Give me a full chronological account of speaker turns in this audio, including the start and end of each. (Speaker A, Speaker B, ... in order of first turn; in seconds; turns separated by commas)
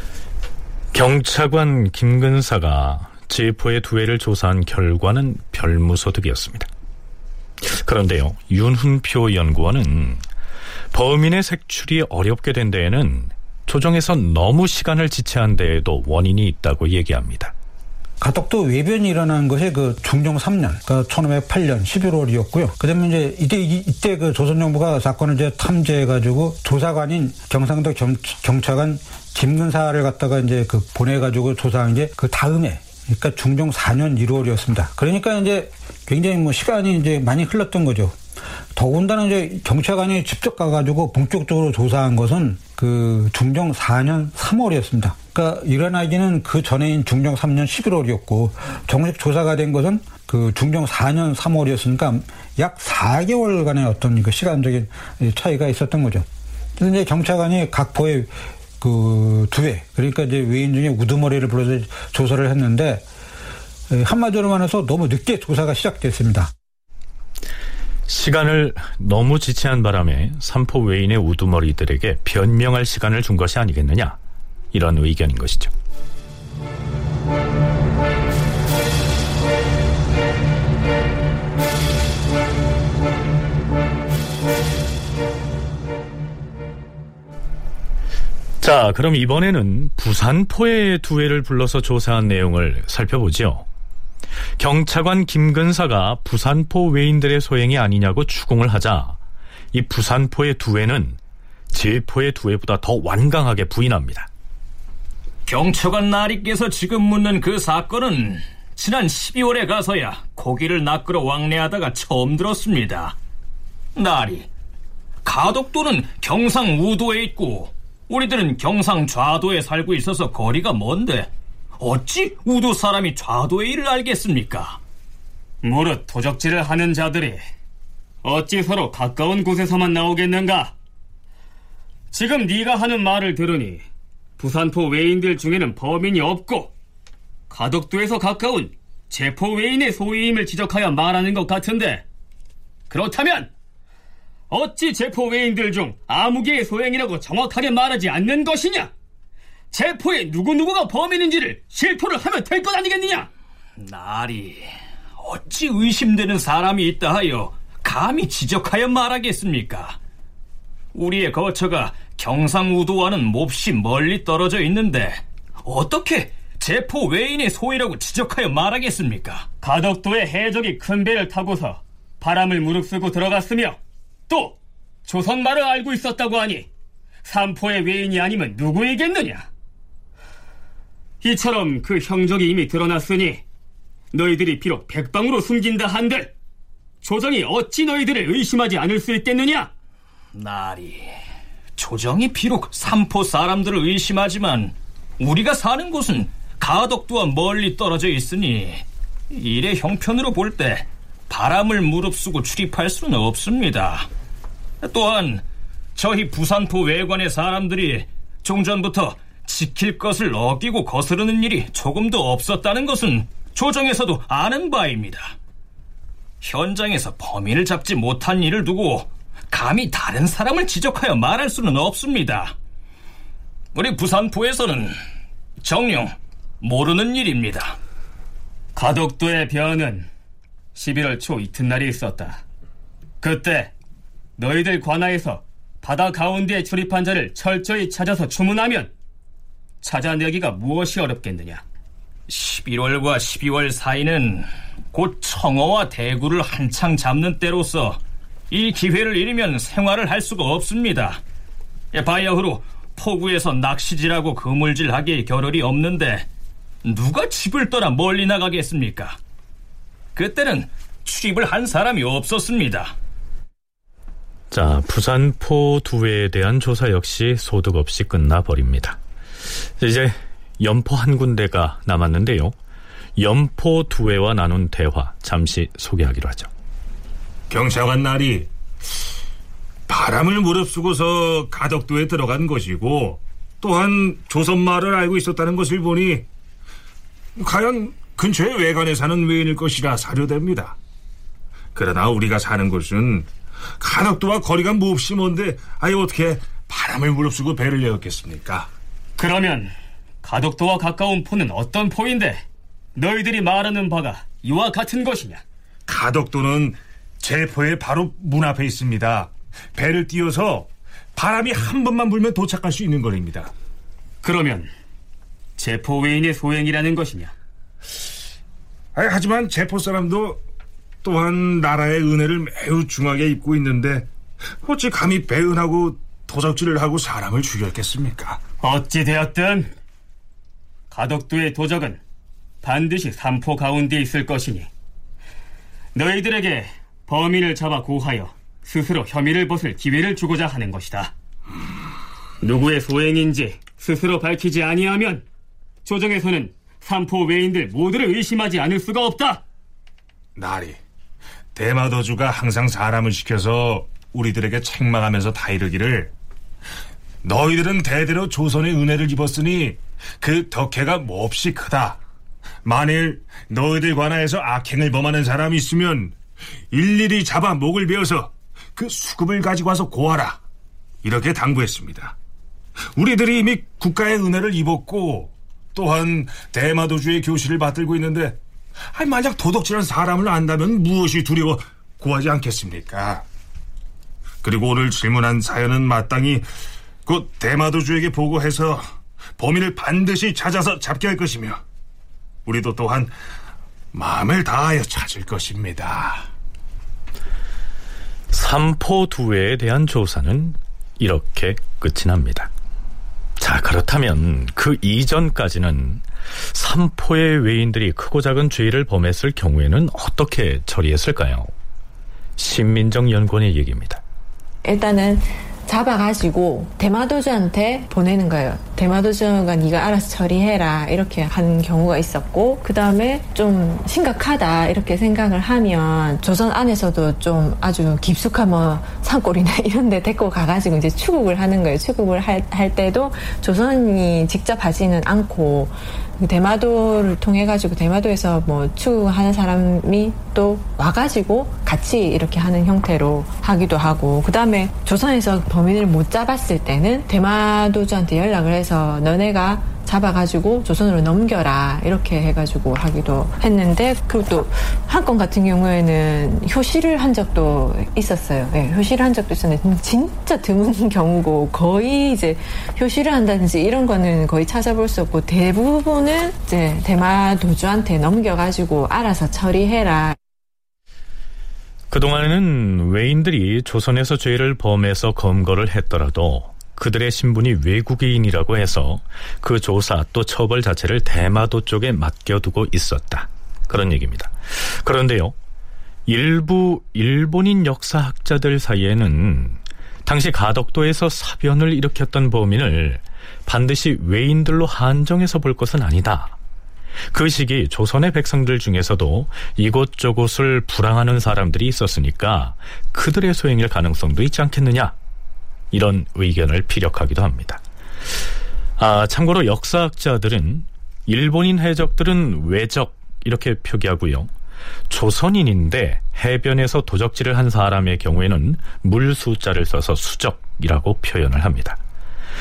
Speaker A: 0.9-6.7, Speaker A: 7.6-10.2, Speaker A: 10.9-17.5, Speaker B: 18.2-38.1, Speaker B: 38.7-63.0, Speaker B: 63.9-66.5, Speaker A: 68.1-74.2, Speaker A: 74.7-75.7, Speaker A: 88.6-93.7, Speaker A: 94.6-99.2, Speaker A: 99.7-101.2, Speaker A: 101.7-104.3, Speaker C: 105.5-113.2, Speaker C: 113.9-114.5, Speaker C: 115.2-124.8, Speaker D: 125.6-127.4, Speaker D: 128.2-130.7, Speaker D: 132.1-133.8, Speaker D: 134.4-136.7, Speaker D: 137.5-142.0, Speaker D: 142.9-143.5, Speaker D: 144.5-148.9, Speaker D: 149.7-153.3, Speaker C: 153.8-160.0, Speaker C: 160.9-169.5, Speaker D: 169.6-173.8, Speaker D: 174.3-176.7, Speaker D: 177.2-179.5, Speaker D: 181.2-183.4, Speaker D: 184.1-186.3, Speaker D: 187.0-189.7, Speaker C: 190.3-191.2, Speaker C: 191.8-204.1, Speaker C: 204.8-205.4, Speaker C: 205.9-215.3, Speaker C: 216.4-222.5, Speaker C: 223.7-225.0, Speaker C: 225.6-227.8, Speaker D: 228.7-230.1, Speaker D: 230.7-232.4, Speaker D: 233.2-233.7, Speaker D: 234.4-238.9, Speaker D: 239.8-241.6, Speaker C: 242.3-251.2, Speaker C: 251.9-256.3, Speaker C: 256.8-259.2, Speaker C: 260.1-262.9, Speaker A: 264.5-269.0, Speaker A: 269.8-272.6, Speaker A: 273.2-276.5, Speaker E: 277.5-278.5, Speaker E: 279.9-286.2, Speaker E: 287.4-290.8, Speaker E: 291.7-293.3, Speaker E: 293.8-298.7, Speaker D: 299.2-302.4, Speaker D: 302.9-305.4, Speaker E: 305.9-313.5, Speaker D: 314.2-314.7, Speaker D: 315.6-317.3, Speaker E: 318.9-320.4, Speaker E: 321.0-324.1, Speaker E: 324.6-328.4, Speaker D: 328.6-329.7, Speaker D: 330.9-332.0, Speaker D: 332.6-334.7, Speaker D: 335.9-341.1, Speaker D: 342.4-345.2, Speaker D: 345.8-349.4, Speaker E: 350.4-350.8, Speaker E: 351.5-356.1, Speaker E: 357.2-362.0, Speaker E: 362.6-366.1, Speaker E: 366.7-370.4, Speaker E: 371.0-372.1, Speaker E: 372.9-378.4, Speaker E: 378.9-383.2, Speaker E: 384.4-386.4, Speaker E: 387.1-388.8, Speaker E: 389.4-391.6, Speaker E: 392.4-393.1, Speaker E: 393.9-396.3, Speaker A: 398.3-402.5, Speaker A: 403.4-411.5, Speaker A: 412.4-414.0, Speaker F: 414.6-470.2, Speaker A: 471.9-485.4, Speaker A: 486.1-496.3, Speaker A: 497.1-504.9, Speaker A: 505.7-507.6, Speaker A: 508.8-514.3, Speaker A: 514.9-521.8